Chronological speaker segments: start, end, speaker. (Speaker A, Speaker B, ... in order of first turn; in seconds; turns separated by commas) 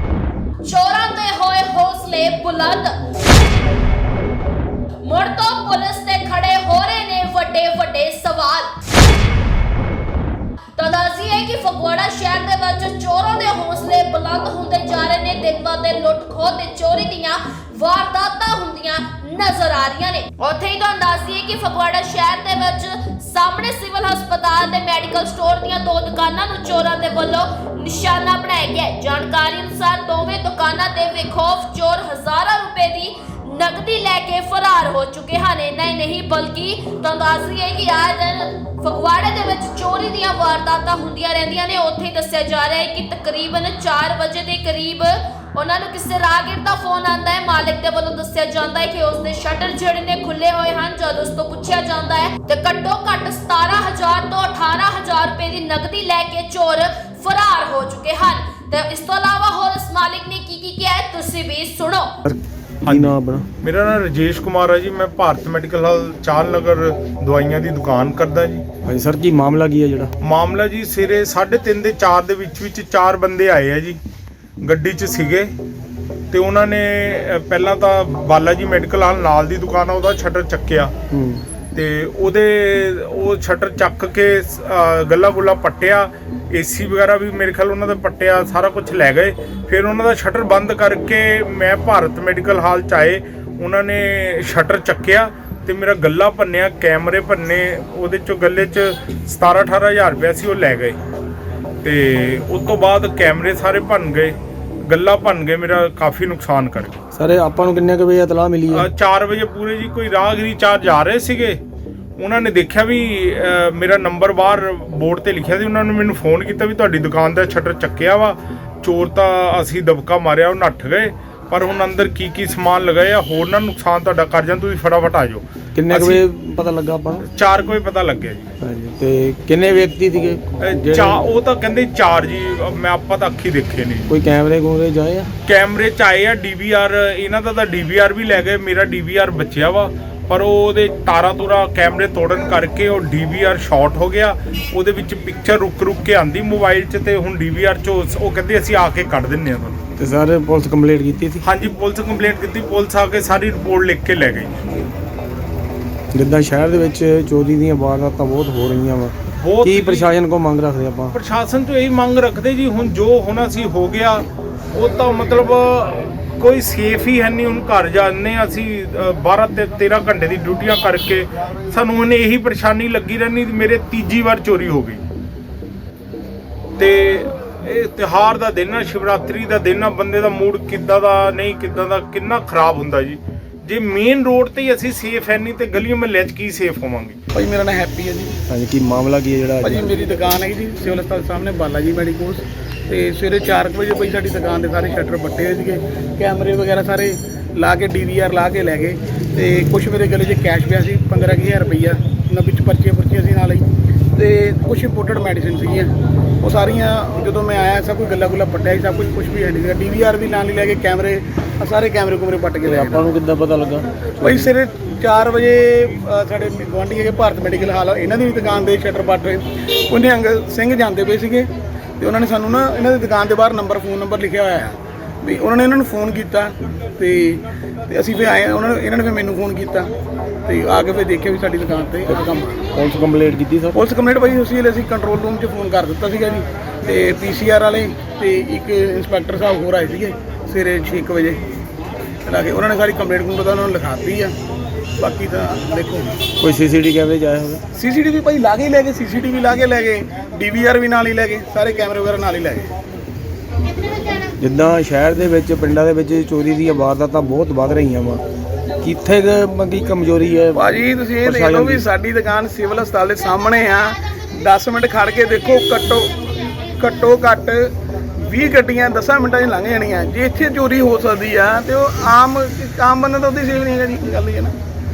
Speaker A: 0.6-3.0, Speaker A: 5.0-8.7, Speaker A: 10.8-62.1, Speaker B: 62.2-63.5, Speaker C: 62.8-68.6, Speaker B: 68.8-70.1, Speaker C: 70.2-74.0, Speaker C: 74.6-75.5, Speaker C: 76.3-80.9, Speaker B: 81.1-81.4, Speaker C: 81.7-101.0, Speaker C: 101.8-107.0, Speaker B: 107.1-108.9, Speaker C: 108.7-111.6, Speaker C: 112.2-126.3, Speaker B: 125.7-127.2, Speaker C: 127.2-128.6, Speaker B: 128.6-131.2, Speaker C: 130.6-134.2, Speaker B: 134.1-135.3, Speaker C: 135.4-149.8, Speaker B: 150.0-151.4, Speaker C: 151.4-154.8, Speaker B: 156.1-161.2, Speaker C: 159.4-160.1, Speaker C: 161.1-175.0, Speaker C: 176.8-187.2, Speaker D: 187.3-188.3, Speaker B: 188.5-189.9, Speaker D: 189.6-213.1, Speaker B: 212.6-214.5, Speaker D: 214.2-221.5, Speaker D: 222.0-229.9, Speaker D: 230.4-232.6, Speaker B: 232.1-233.8, Speaker D: 233.7-241.4, Speaker D: 242.2-244.3, Speaker D: 245.0-246.2, Speaker B: 246.4-247.6, Speaker D: 247.7-252.7, Speaker B: 254.4-258.2, Speaker B: 258.8-260.7, Speaker D: 260.5-266.1, Speaker B: 261.2-261.9, Speaker D: 266.8-274.5